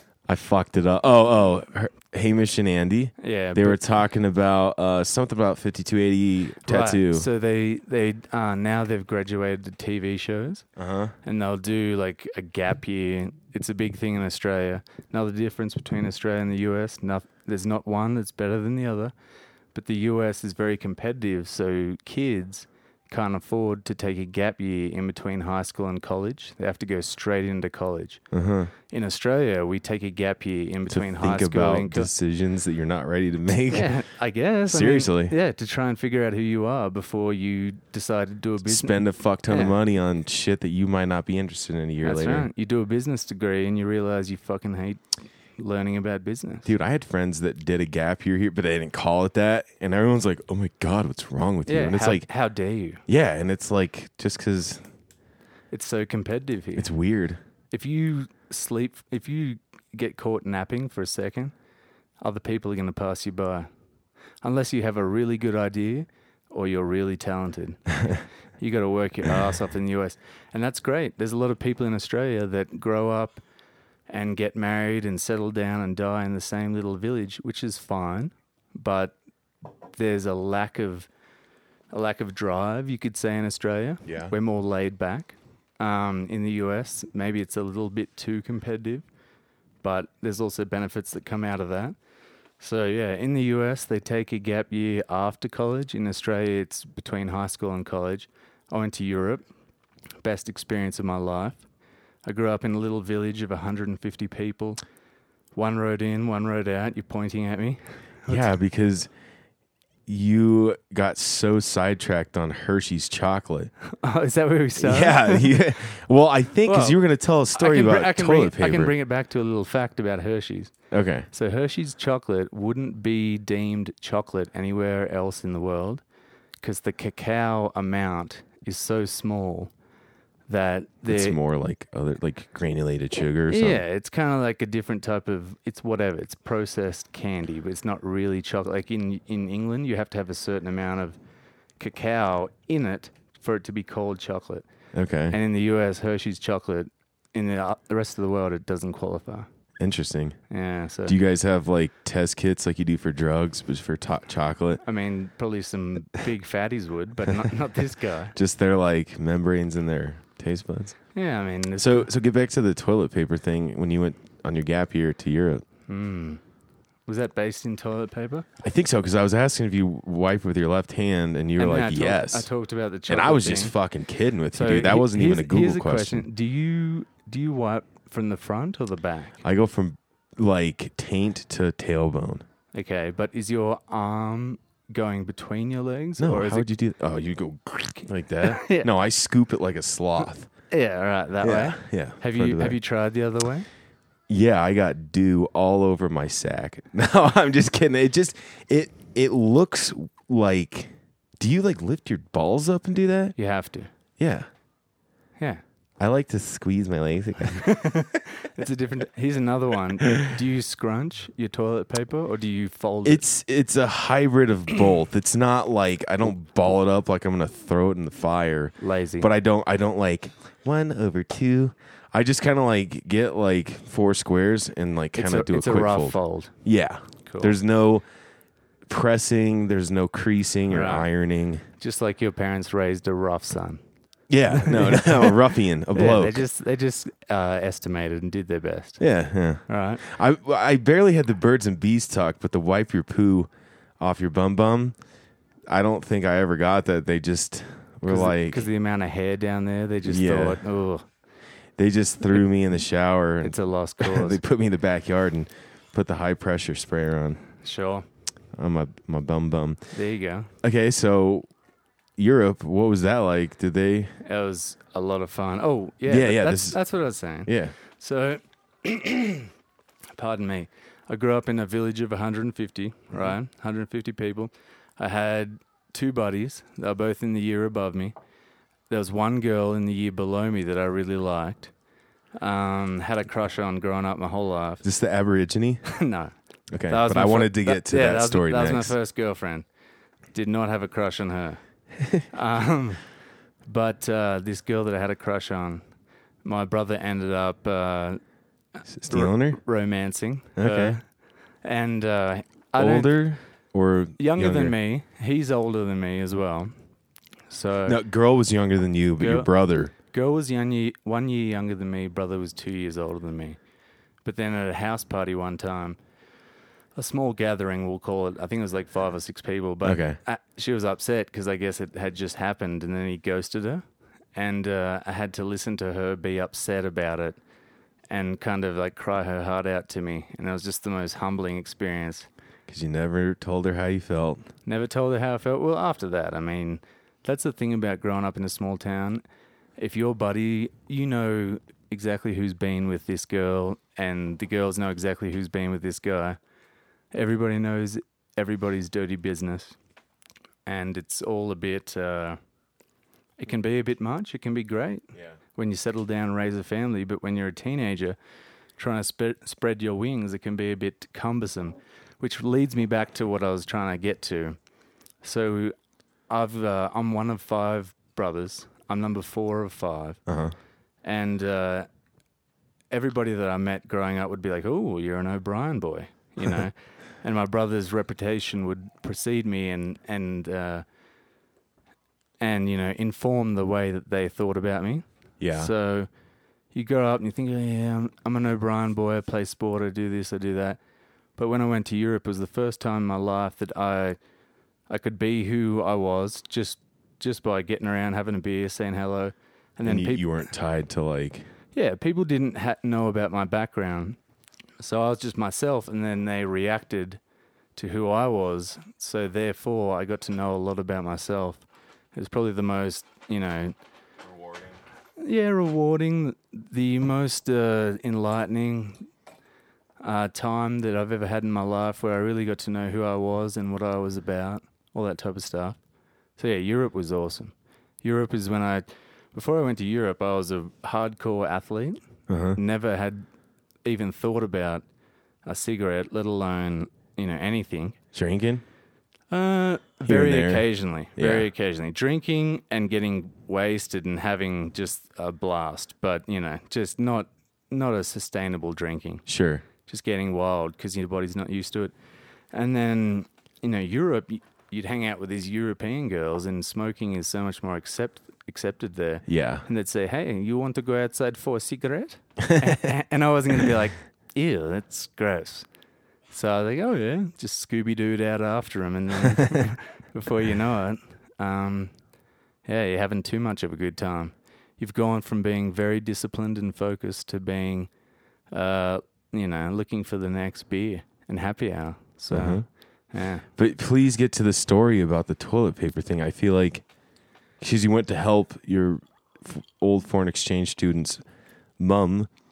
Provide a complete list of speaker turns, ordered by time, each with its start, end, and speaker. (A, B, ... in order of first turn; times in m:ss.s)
0:00.3-0:07.3 A
0:03.2-0:03.8 B
0:06.6-0:10.6 B
0:10.8-0:11.1 A
0:11.2-0:19.1 B
0:19.7-0:28.2 B
0:28.3-0:28.7 A
0:28.9-0:32.1 B
0:30.9-0:33.9 A
0:33.7-0:39.8 B
0:34.7-0:35.3 A
0:38.6-0:42.5 A
0:42.0-0:45.0 B
0:45.6-0:46.7 B
0:46.6-0:52.3 A
0:51.6-0:53.0 B
0:53.1-0:54.8 A
0:55.7-0:56.9 B
0:56.8-0:57.4 A
0:57.7-1:01.5 B
1:02.2-1:03.7 B
1:04.4-1:13.4 B
1:14.1-1:19.1 B
1:20.0-1:21.1 B
1:21.9-1:29.0 B
1:24.0-1:24.3 A
1:29.8-1:31.9 B
1:32.6-1:39.4 B
1:40.2-1:41.6 B
1:42.2-1:44.8 B
1:45.5-1:48.5 B
1:48.3-1:49.1 A
1:50.1-1:53.7 A
1:53.9-1:55.6 B
1:54.8-1:58.9 A
1:56.6-1:57.0 B
1:57.5-2:00.7 B
2:00.9-2:01.3 A
2:01.3-2:06.0 B
2:06.6-2:09.7 B
2:10.5-2:11.4 B
2:11.1-2:13.8 A
2:13.5-2:21.2 B
2:21.8-2:24.6 B
2:24.9-2:25.4 A
2:25.3-2:29.5 B
2:29.8-2:30.4 A
2:30.5-2:31.2 B
2:31.0-2:34.8 A
2:34.8-2:38.3 B
2:38.3-2:41.0 A
2:41.1-2:42.1 B
2:41.8-2:45.6 A
2:45.9-2:46.4 B
2:47.1-2:48.5 B
2:48.6-2:52.5 A
2:51.6-2:53.7 B
2:53.1-2:56.3 A
2:54.5-2:59.3 B
2:59.4-3:02.4 A
3:02.7-3:06.7 B
3:06.2-3:10.5 A
3:08.4-3:08.9 B
3:10.7-3:13.7 B
3:11.4-3:12.8 A
3:14.3-3:23.3 A
3:23.4-3:23.9 B
3:24.2-3:24.5 A
3:26.0-3:27.7 A
3:27.5-3:33.2 B
3:33.0-3:48.0 A
3:38.8-3:39.3 B
3:45.1-3:46.5 B
3:47.3-3:47.5 B
3:48.9-3:51.6 A
3:50.7-3:51.1 B
3:51.8-3:53.8 B
3:54.3-3:56.4 A
3:54.5-3:55.4 B
3:55.9-3:59.0 B
3:59.0-4:03.5 A
3:59.7-4:00.0 B
4:04.0-4:05.0 A
4:05.7-4:08.6 A
4:08.1-4:11.0 B
4:10.0-4:10.6 A
4:11.8-4:17.4 A
4:13.4-4:14.4 B
4:17.6-4:18.0 B
4:18.5-4:19.9 A
4:19.9-4:20.5 B
4:20.6-4:21.5 A
4:22.2-4:24.1 A
4:24.2-4:29.5 B
4:26.1-4:26.8 A
4:27.4-4:27.7 A
4:30.2-4:38.1 B
4:38.9-4:41.7 B
4:42.4-4:44.8 B
4:44.8-4:45.8 A
4:45.8-4:46.3 B
4:46.7-4:48.9 A
4:46.9-4:49.6 B
4:50.3-4:51.6 B
4:52.0-4:52.2 A
4:52.3-4:53.0 B
4:53.6-4:55.8 B
4:56.4-4:58.2 B
4:58.9-4:59.6 A
4:59.1-5:01.0 B
5:00.6-5:00.9 A
5:01.6-5:03.2 B
5:02.8-5:04.7 A
5:04.2-5:06.7 B
5:07.5-5:08.0 B
5:07.8-5:09.9 A
5:09.2-5:09.5 B
5:10.0-5:13.6 B
5:14.2-5:16.0 B
5:17.0-5:23.8 B
5:19.8-5:20.2 A
5:24.3-5:27.4 B
5:28.1-5:32.3 B
5:32.7-5:34.4 A
5:34.6-5:39.2 B
5:39.8-5:46.4 B
5:47.1-5:49.8 B
5:50.6-5:52.4 B
5:53.4-5:58.2 B
5:58.8-6:04.6 B
6:05.2-6:05.7 B
6:06.3-6:10.2 B
6:10.3-6:10.5 A
6:11.0-6:11.9 B
6:12.9-6:20.8 B
6:22.4-6:26.1 B
6:25.4-6:25.7 A
6:26.7-6:30.8 B
6:31.4-6:34.2 B
6:34.9-6:40.3 B
6:39.8-6:41.5 A
6:41.7-6:44.2 B
6:44.8-6:47.2 B
6:47.8-6:53.7 B
6:54.3-6:54.8 A
6:55.2-6:59.1 B
7:00.0-7:05.8 B
7:06.4-7:12.0 B
7:12.3-7:12.6 A
7:12.6-7:13.2 B
7:13.8-7:14.8 B
7:15.4-7:18.0 B
7:18.1-7:18.6 A
7:19.3-7:29.2 B
7:20.0-7:21.5 A
7:29.3-7:29.6 A
7:29.8-7:31.9 B
7:32.5-7:45.7 B
7:39.3-7:39.6 A
7:42.4-7:42.8 A
7:46.3-7:51.9 B
7:49.2-7:49.7 A
7:52.6-7:57.9 B
7:58.5-8:03.4 B
8:02.3-8:02.6 A
8:03.6-8:06.8 A
8:07.6-8:11.2 A
8:11.8-8:12.3 A